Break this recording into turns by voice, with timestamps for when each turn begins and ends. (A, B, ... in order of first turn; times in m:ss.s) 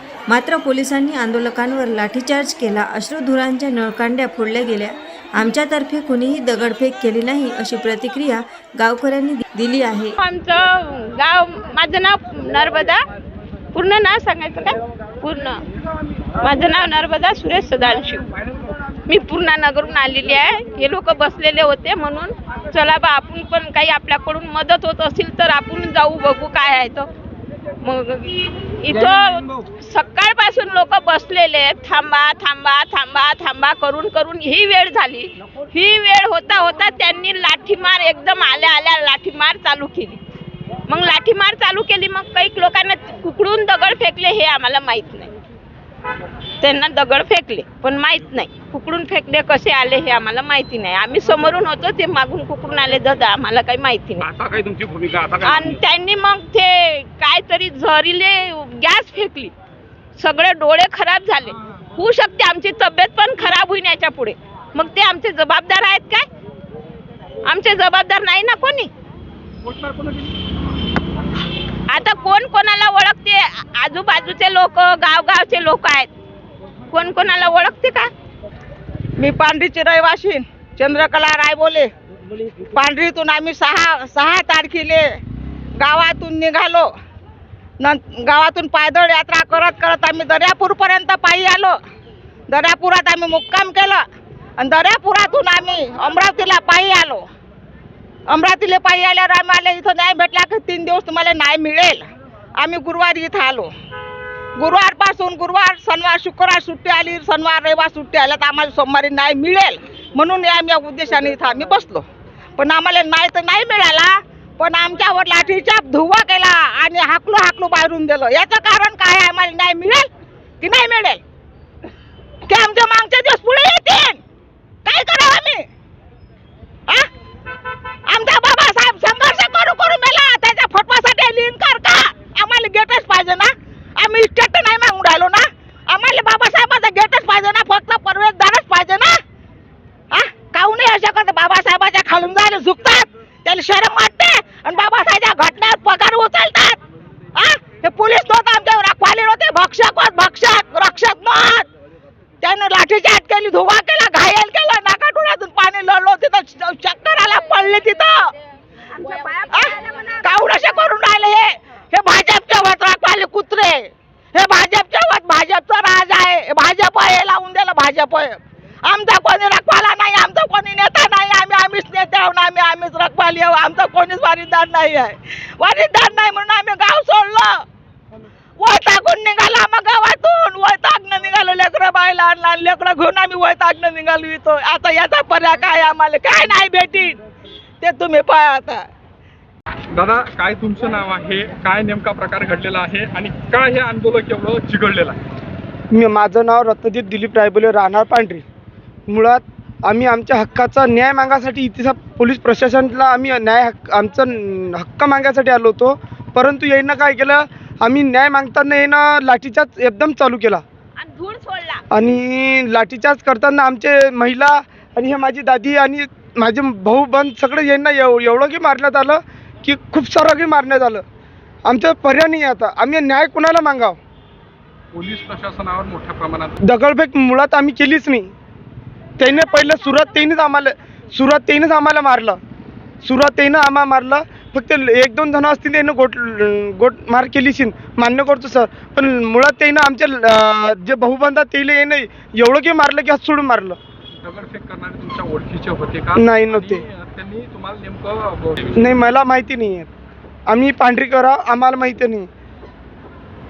0:00.3-0:10.2 A
0:10.2-0:13.0 B
0:13.7-0:15.6 B
0:16.4-0:18.2 B
0:19.1-0:27.1 B
0:27.8-0:40.2 B
0:40.9-0:45.3 B
0:46.6-0:54.2 B
0:54.2-0:55.7 C
0:55.4-0:59.5 B
1:00.2-1:06.2 B
1:07.4-1:08.9 B
1:09.6-1:10.3 C
1:11.9-1:16.1 B
1:16.9-1:18.1 B
1:19.2-1:21.9 D
1:22.7-1:25.0 D
1:25.8-1:26.9 D
1:27.8-1:31.8 D
1:32.5-1:34.0 D
1:34.6-1:37.2 D
1:38.3-1:42.1 D
1:42.6-1:43.7 D
1:44.6-1:52.0 D
1:52.6-2:00.1 D
2:00.6-2:01.2 D
2:02.5-2:04.2 D
2:04.8-2:05.7 D
2:08.1-2:19.2 D
2:20.1-2:26.8 D
2:27.3-2:31.7 D
2:32.4-2:38.3 D
2:39.0-2:40.2 B
2:39.5-2:57.6 D
2:58.6-3:07.2 D
3:07.8-3:08.8 D
3:09.9-3:15.2 C
3:15.9-3:18.4 E
3:19.1-3:30.6 E
3:31.0-3:31.8 B
3:31.9-3:41.0 E
3:41.6-3:44.0 E
3:44.9-3:46.5 C
3:46.6-3:48.3 E
3:49.2-3:52.4 E
3:53.0-4:03.8 E
4:04.2-4:09.1 C
4:06.2-4:06.8 E
4:08.8-4:09.9 E
4:10.5-4:12.3 E